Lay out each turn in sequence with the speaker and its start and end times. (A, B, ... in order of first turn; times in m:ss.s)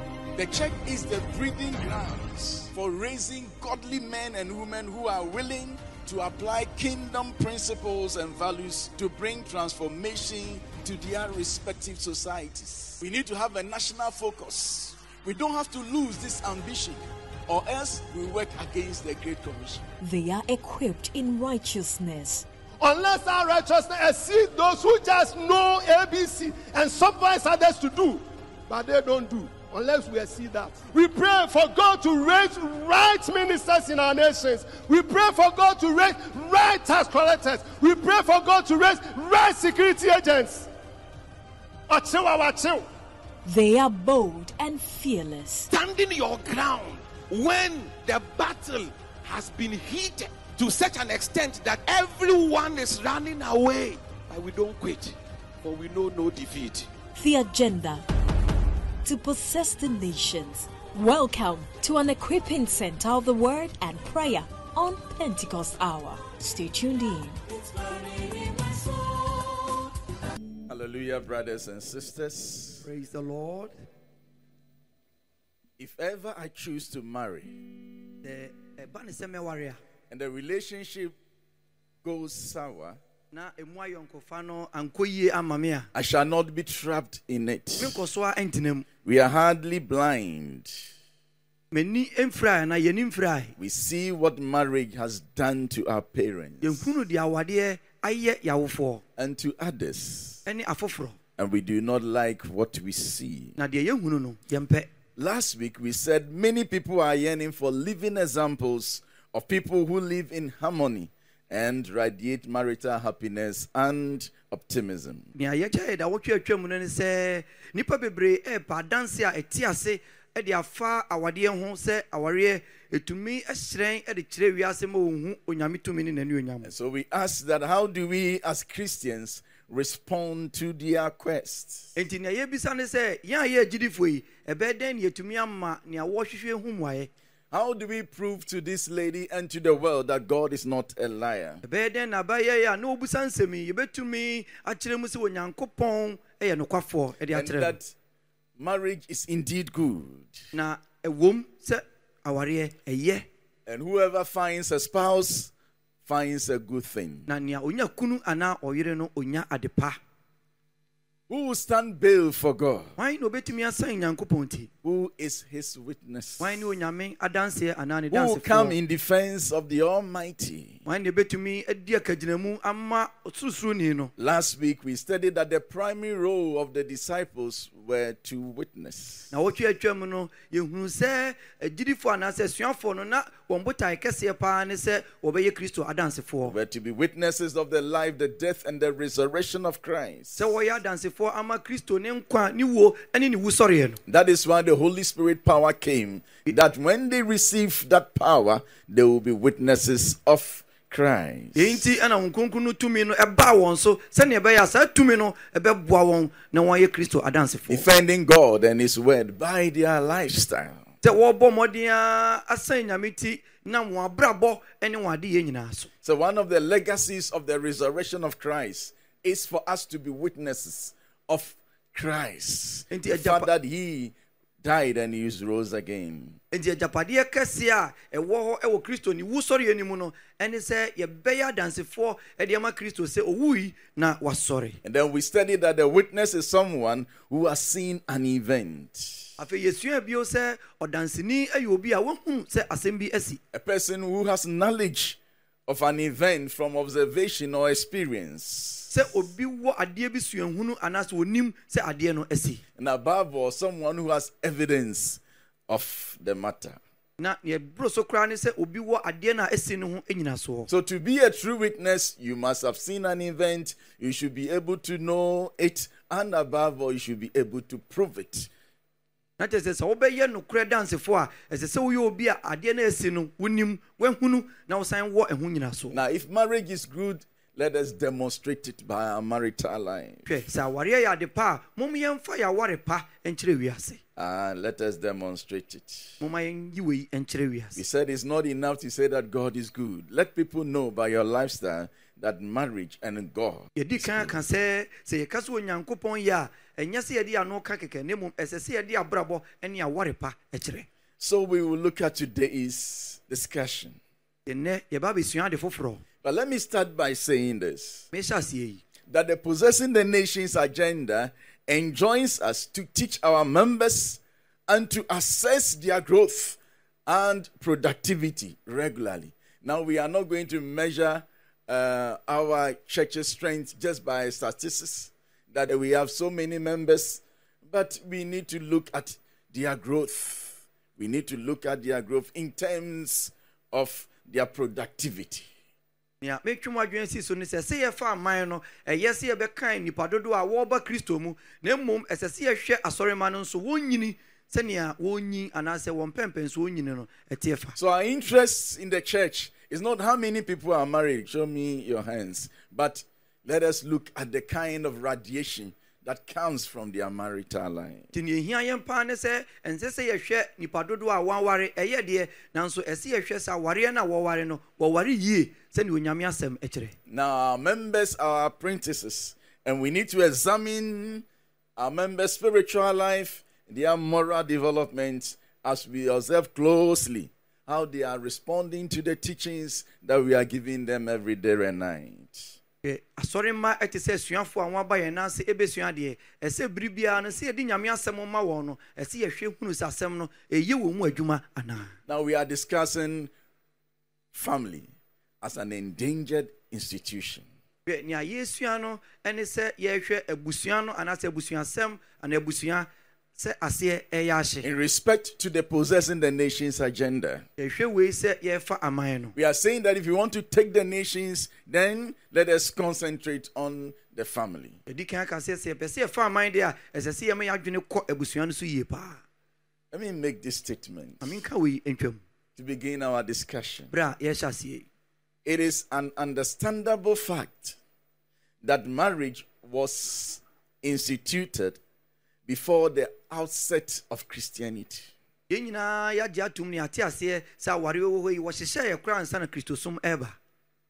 0:00.4-0:19.8 A
0:20.0-0:22.5 B
0:22.8-0:40.7 C
0:41.9-0:42.9 C
0:43.4-0:45.7 B
0:45.7-0:56.9 D
0:57.1-0:58.0 B
0:59.0-1:09.8 B
1:10.7-1:12.8 A
1:12.8-1:13.7 E
1:15.8-1:17.6 A
1:18.2-1:19.8 E
1:20.1-1:21.1 A
1:22.0-1:23.0 A
1:23.3-1:25.9 E
1:25.9-1:28.0 A
1:27.8-1:28.9 E
1:29.0-1:30.8 A
1:31.7-1:33.6 E
1:33.6-1:37.0 A
1:36.6-1:39.0 E
1:39.2-1:40.4 A
1:40.5-1:41.2 E
1:41.4-1:43.6 A
1:43.6-1:44.9 E
1:45.2-1:55.3 A
1:55.4-2:06.7 E
2:06.6-2:12.0 A
2:12.0-2:17.1 E
2:17.5-2:21.6 A
2:21.6-2:27.8 E
2:27.3-2:27.9 A
2:28.6-2:30.3 A
2:30.5-2:33.2 E
2:33.7-2:35.5 A
2:36.1-2:37.3 A
2:37.3-2:40.0 E
2:41.3-2:43.0 A
2:43.0-2:44.7 E
2:44.8-2:46.6 A
2:46.4-2:48.8 E
2:48.1-2:50.8 A
2:50.8-2:54.1 E
2:54.2-2:59.3 A
2:59.3-3:06.6 E
3:06.5-3:10.5 A
3:10.4-3:14.0 E
3:14.1-3:21.9 A
3:21.6-3:27.8 E
3:27.7-3:30.8 A
3:31.0-3:35.9 E
3:36.0-3:46.4 A
3:42.9-3:43.5 E
3:46.5-3:54.8 E
3:54.8-3:59.4 A
3:59.4-4:03.4 E
4:03.5-4:09.0 A
4:08.9-4:12.6 E
4:12.8-4:16.8 A
4:17.2-4:20.7 E
4:20.7-4:28.5 A
4:29.4-4:36.0 E
4:35.9-4:40.3 A
4:40.3-4:44.0 E
4:44.2-4:46.2 A
4:46.2-4:47.8 E
4:47.8-4:54.4 A
4:53.8-5:00.9 E
5:01.2-5:04.0 A
5:04.5-5:06.0 E
5:06.2-5:08.1 A
5:08.1-5:08.8 E
5:09.1-5:35.5 A
5:36.2-5:47.8 E
5:47.8-5:58.1 A
5:58.1-6:07.0 E
6:07.1-6:11.2 A
6:11.8-6:22.6 A
6:22.8-6:31.9 E
6:32.1-6:33.3 A
6:34.3-6:34.9 A
6:35.4-6:37.5 A
6:37.9-6:44.7 E
6:44.6-6:47.5 A
6:47.6-6:49.3 E
6:49.4-6:54.8 A
6:54.9-6:59.2 E
6:59.9-7:01.4 A
7:01.2-7:02.2 E
7:02.6-7:03.9 A
7:03.9-7:04.9 E
7:05.4-7:07.8 A
7:08.6-7:11.8 A
7:12.5-7:15.1 A
7:15.5-7:20.4 E